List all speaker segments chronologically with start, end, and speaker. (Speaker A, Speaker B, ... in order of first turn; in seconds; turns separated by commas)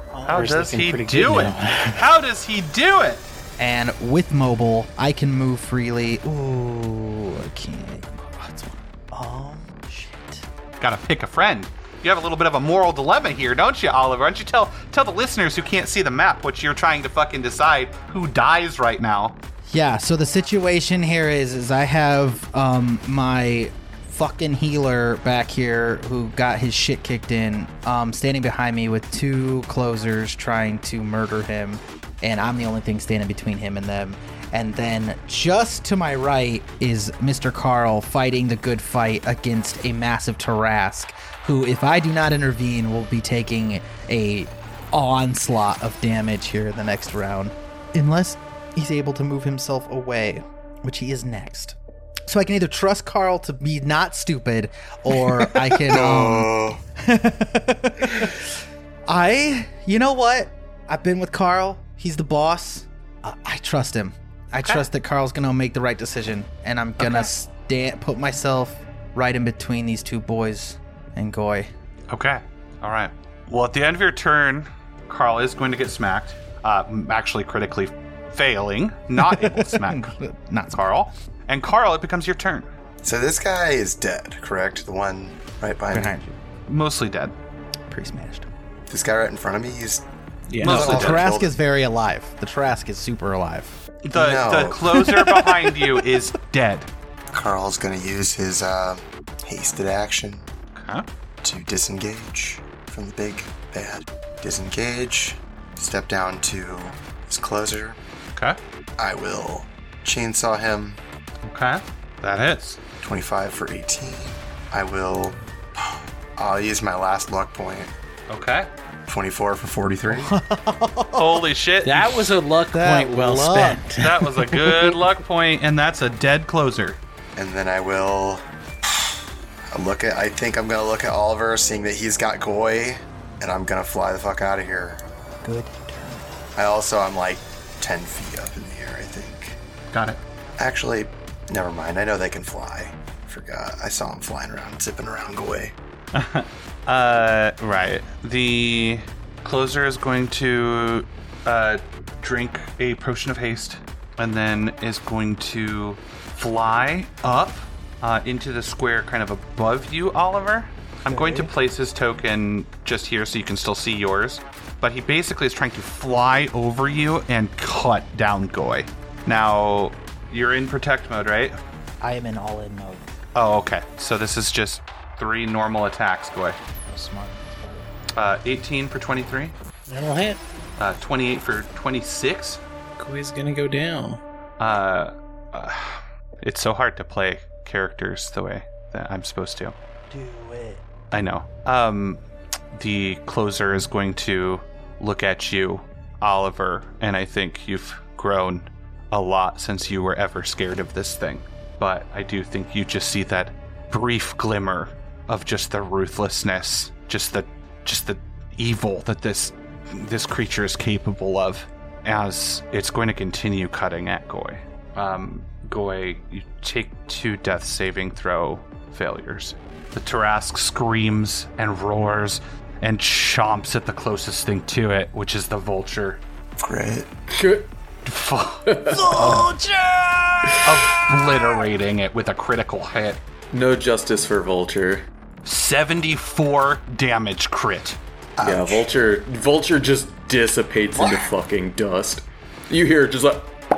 Speaker A: 0.1-2.0, Speaker B: 0.3-3.2, Speaker C: 3.6-10.5, Speaker B: 10.8-19.4, Speaker C: 19.7-58.5, Speaker D: 55.9-56.8, Speaker C: 59.1-71.7, Speaker B: 67.0-67.3, Speaker B: 72.1-80.1, Speaker C: 79.2-80.8, Speaker B: 80.7-82.7, Speaker D: 83.0-86.2, Speaker C: 85.9-86.4, Speaker B: 86.7-87.3, Speaker C: 87.9-88.5, Speaker D: 88.9-90.0, Speaker A: 90.5-90.9, Speaker D: 90.6-91.5, Speaker B: 90.6-91.2, Speaker C: 90.6-93.8, Speaker B: 94.1-96.9, Speaker D: 94.1-95.0, Speaker D: 97.3-100.5, Speaker B: 100.8-101.1, Speaker D: 101.4-108.0, Speaker D: 109.0-111.0, Speaker B: 111.4-112.8, Speaker D: 113.0-117.9, Speaker B: 118.3-118.7, Speaker D: 119.1-120.3, Speaker C: 120.1-121.4, Speaker B: 121.2-122.3, Speaker A: 121.8-124.8, Speaker C: 122.7-123.8, Speaker B: 124.0-127.0, Speaker D: 127.4-128.4, Speaker D: 129.7-135.0, Speaker C: 135.4-136.3, Speaker D: 136.6-139.6, Speaker B: 139.9-140.2, Speaker D: 140.6-145.8, Speaker B: 146.1-171.6, Speaker C: 161.1-161.5, Speaker C: 172.0-173.0, Speaker B: 173.3-176.6, Speaker C: 176.8-177.9, Speaker B: 178.2-179.6, Speaker A: 179.9-180.4, Speaker B: 180.8-182.6, Speaker A: 183.0-184.2, Speaker B: 184.6-189.8, Speaker C: 190.1-190.8, Speaker B: 191.1-192.2, Speaker B: 192.7-226.2, Speaker D: 226.6-227.1, Speaker E: 227.3-227.7, Speaker B: 228.1-229.5, Speaker E: 228.7-229.5, Speaker B: 230.6-233.2, Speaker E: 233.5-235.1, Speaker B: 235.4-238.0, Speaker D: 238.4-238.9, Speaker E: 238.4-243.5, Speaker D: 240.9-241.3